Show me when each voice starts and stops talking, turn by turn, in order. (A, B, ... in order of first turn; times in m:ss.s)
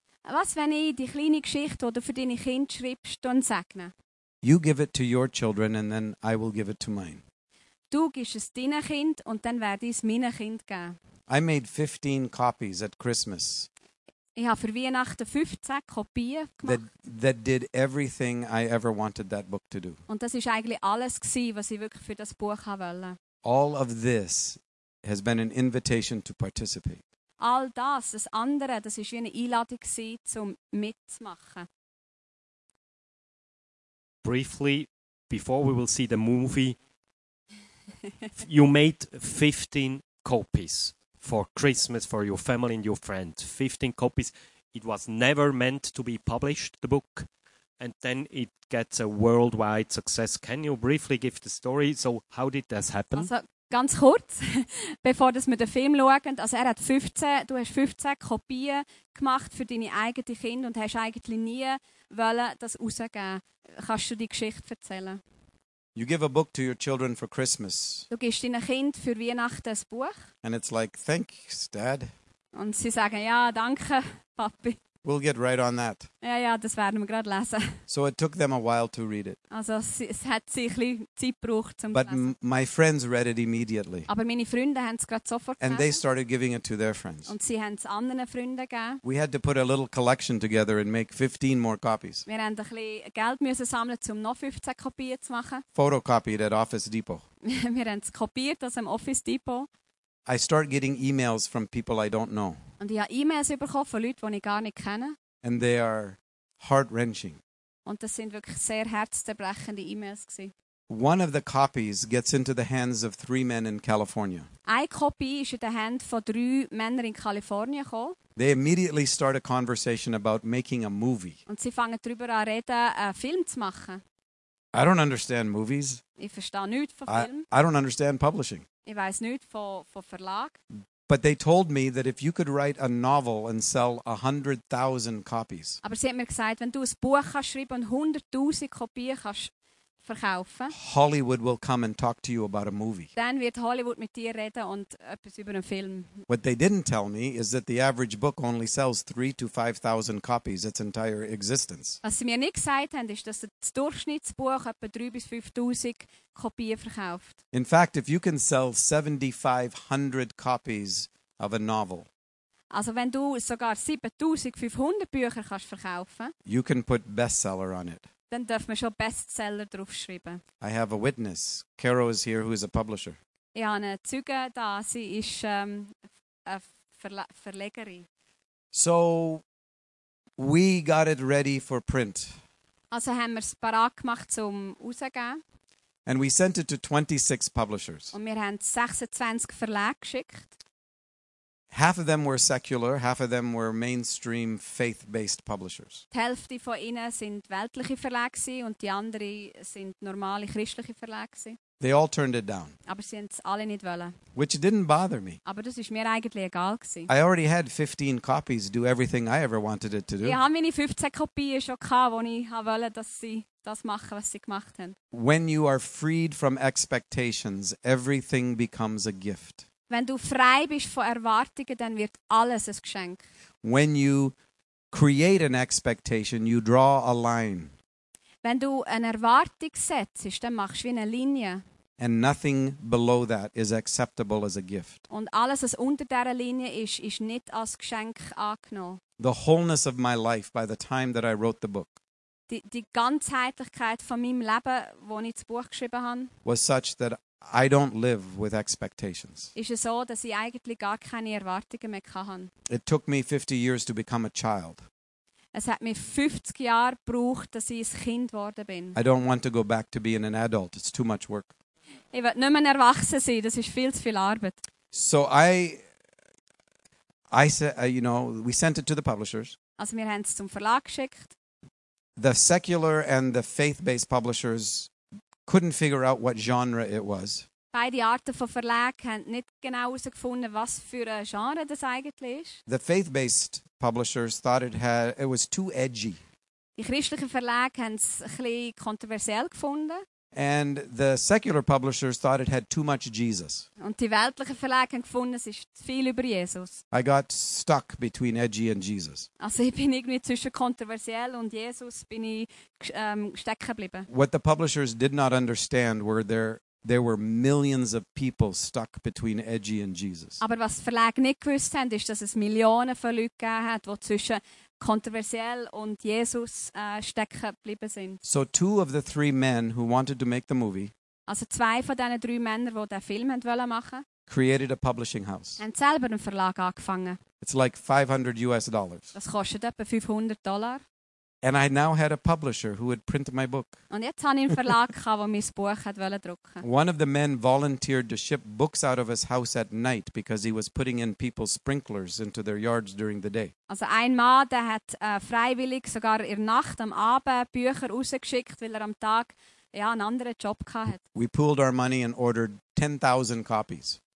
0:00.2-0:03.9 A
0:04.4-0:07.2 B
0:07.9-0:11.0 A
0:11.3-0:13.7 B
0:14.4-0:16.8 A
0:16.6-0:20.0 B
0:20.1-0:23.2 A
0:23.4-0:27.0 B
0:27.4-0:31.7 A
0:34.2-0:36.8 C
0:38.4-0:47.3 C
0:47.8-0:53.3 C
0:53.1-1:05.2 A
1:05.9-1:08.1 B
1:08.1-1:10.2 A
1:10.4-1:12.1 B
1:12.5-1:14.8 A
1:15.0-1:16.1 B
1:16.2-1:17.8 A
1:17.9-1:19.4 B
1:19.5-1:22.3 A
1:21.9-1:24.1 B
1:24.1-1:26.0 A
1:25.6-1:27.3 B
1:27.3-1:29.0 A
1:29.0-1:32.2 B
1:32.3-1:35.6 A
1:35.7-1:37.2 B
1:37.4-1:39.7 A
1:40.2-1:42.6 B
1:42.8-1:45.2 A
1:45.4-1:47.4 B
1:47.8-1:50.5 A
1:50.9-1:54.5 B
1:54.7-1:58.2 A
1:58.4-2:01.4 B
2:01.5-2:04.0 A
2:04.7-2:06.0 B
2:06.2-2:07.4 A
2:07.1-2:08.6 B
2:08.8-2:10.6 A
2:11.1-2:15.8 B
2:15.8-2:19.5 A
2:20.0-2:20.7 A
2:20.7-2:23.1 B
2:23.2-2:26.2 A
2:26.3-2:32.0 B
2:32.0-2:37.4 A
2:37.5-2:42.1 B
2:42.7-2:46.3 A
2:46.4-2:48.1 B
2:48.3-2:50.4 A
2:50.6-2:53.2 B
2:53.5-2:58.0 A
2:58.7-2:59.4 B
3:00.4-3:02.4 B
3:02.9-3:05.4 A
3:06.0-3:08.1 B
3:08.1-3:10.5 A
3:11.7-3:16.0 B
3:16.1-3:21.6 A
3:21.8-3:22.8 B
3:22.9-3:24.1 A
3:24.3-3:25.4 B
3:25.4-3:27.1 A
3:27.1-3:30.4 B
3:30.2-3:35.0 A
3:35.1-3:39.6 B
3:39.9-3:43.2 A
3:43.6-3:44.3 B
3:44.9-3:47.7 B
3:48.4-3:51.6 A
3:52.0-3:55.0 B
3:55.1-3:59.0 A
3:59.2-4:02.0 B
4:02.5-4:06.3 A
4:06.4-4:09.5 B
4:09.5-4:12.5 A
4:12.7-4:14.8 B
4:15.5-4:19.0 A
4:18.9-4:21.5 B
4:22.1-4:24.6 A
4:24.9-4:25.8 B
4:27.3-4:29.6 B
4:29.8-4:31.3 A
4:32.2-4:34.9 B
4:35.4-4:37.4 B
4:37.7-4:42.6 A
4:42.7-4:46.2 B
4:46.8-4:50.0 A
4:50.3-4:53.7 B
4:53.8-4:56.8 A
4:56.9-4:59.3 B
4:59.4-5:04.1 A
5:04.1-5:10.4 B
5:10.4-5:18.2 A
5:18.2-5:20.9 B
5:21.3-5:24.0 A
5:24.3-5:25.6 B
5:25.6-5:27.2 A
5:27.4-5:29.1 B
5:29.1-5:30.8 A
5:31.4-5:33.8 B
5:33.9-5:36.6 A
5:36.6-5:43.5 B
5:43.7-5:51.0 A
5:51.1-5:54.0 B